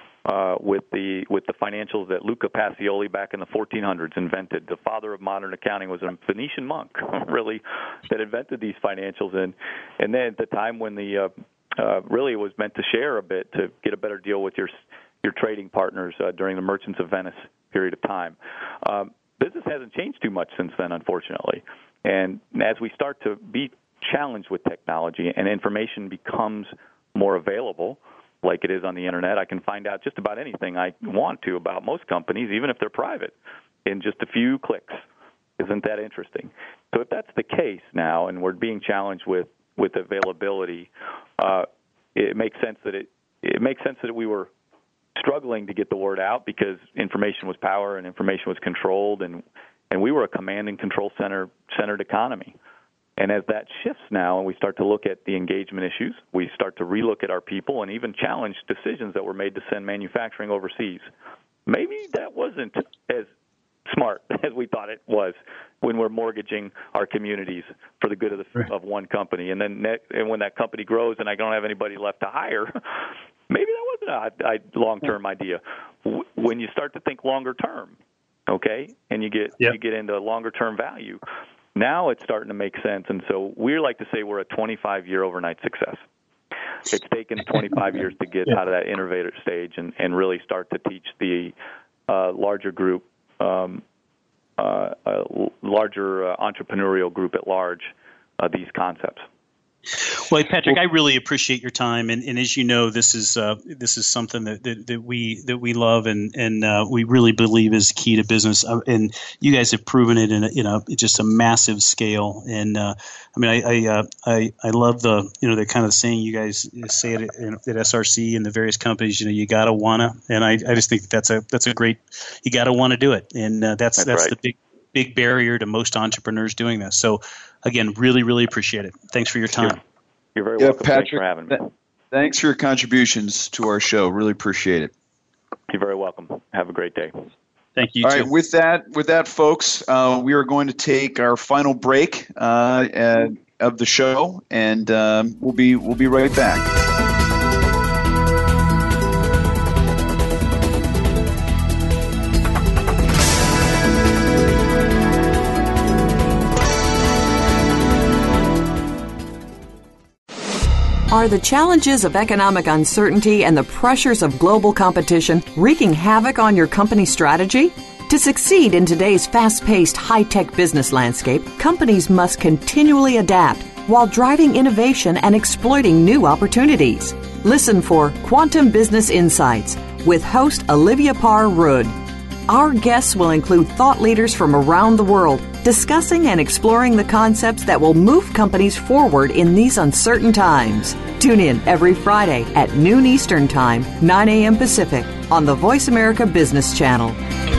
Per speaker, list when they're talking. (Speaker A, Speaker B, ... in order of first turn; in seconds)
Speaker A: 0.2-33.3, 33.9-35.0, 35.6-44.5, 45.2-52.5, 53.2-61.1, 61.7-63.3, 63.9-72.8, 73.5-78.0, 78.5-81.2, 81.8-86.0, 86.9-91.5, 92.1-93.8, 94.6-99.2, 124.0-124.3, 130.3-131.7, 135.7-137.2
Speaker B: 100.0-129.8, 137.8-138.3
Speaker C: 130.6-134.9, 138.0-146.7
Speaker D: 161.1-182.0, 182.5-197.2